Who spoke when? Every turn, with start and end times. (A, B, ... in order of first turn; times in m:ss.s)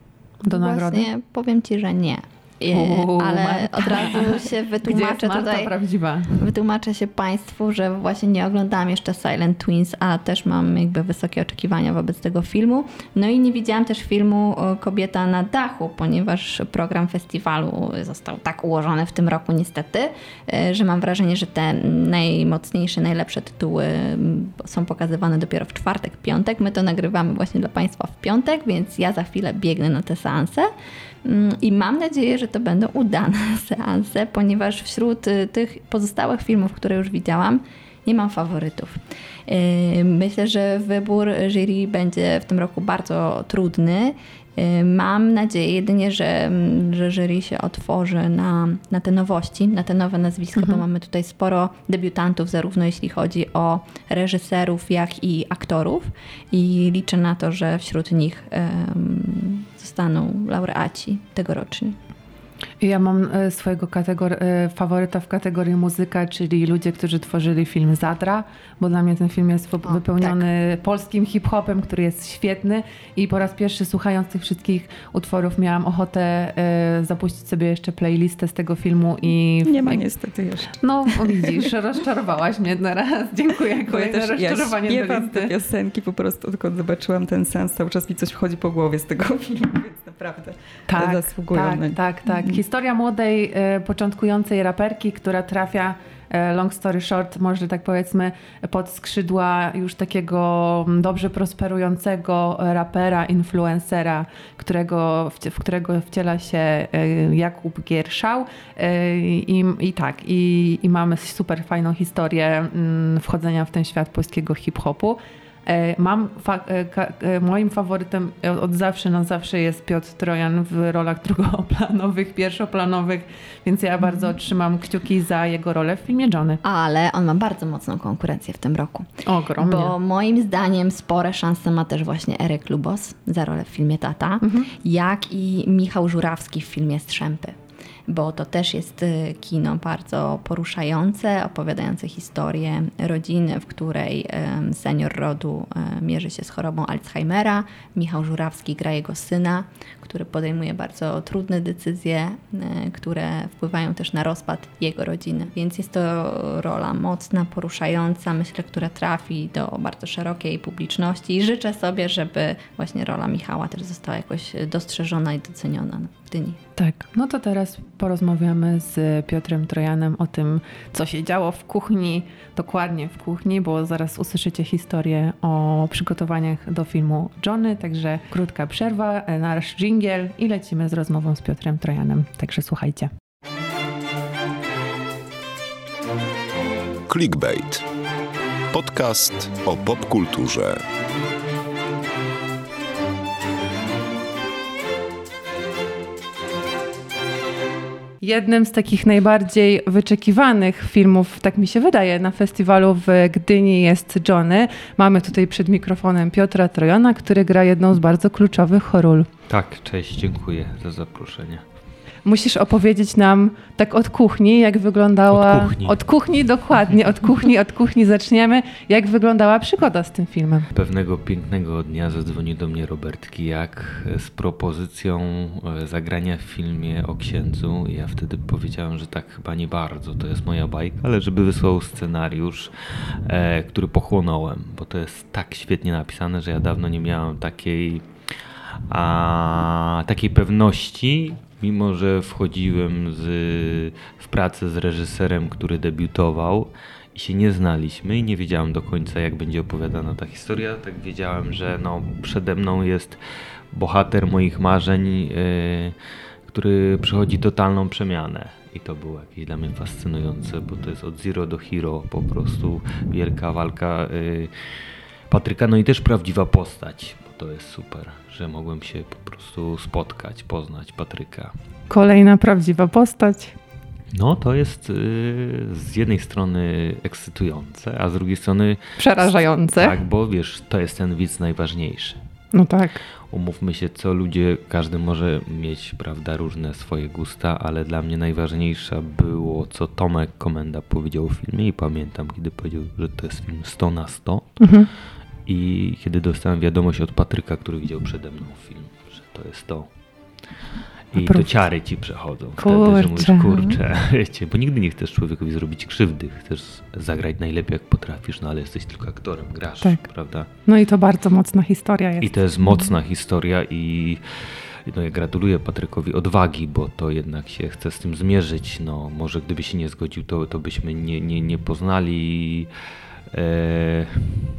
0:00.4-0:01.1 A
0:00.4-0:05.7 B
0:02.7-0:06.3 A
0:06.4-0:30.7 B
0:31.2-1:02.0 B
0:50.6-0:50.8 A
1:02.8-1:20.0 A
1:09.9-1:10.4 B
1:19.6-1:21.6 C
1:20.7-1:25.5 A
1:23.9-1:32.0 C
1:30.9-2:06.6 A
2:06.6-2:09.1 B
2:09.2-2:10.0 A
2:09.6-2:17.6 B
2:14.4-2:14.7 A
2:18.1-2:46.6 B
2:46.8-3:03.1 A
3:07.1-3:07.8 D
3:08.7-3:10.8 D
3:18.2-3:29.3 A
3:29.5-3:31.6 E
3:32.2-3:40.7 A
3:35.3-3:36.0 E
3:40.7-3:52.7 E
3:53.2-3:58.1 E
3:58.9-4:13.2 E
4:13.7-4:16.0 E
4:16.5-4:24.5 E
4:25.3-4:31.5 E
4:31.9-4:33.6 A
4:34.1-4:42.2 E
4:39.0-4:40.0 A
4:42.5-4:43.0 A
4:43.3-4:54.9 E
4:54.6-4:54.9 A
4:55.4-4:59.9 E
5:01.1-5:10.5 E
5:01.1-5:01.6 A
5:02.6-5:03.6 A
5:10.6-5:12.8 A
5:12.2-5:22.7 E
5:23.3-5:24.4 E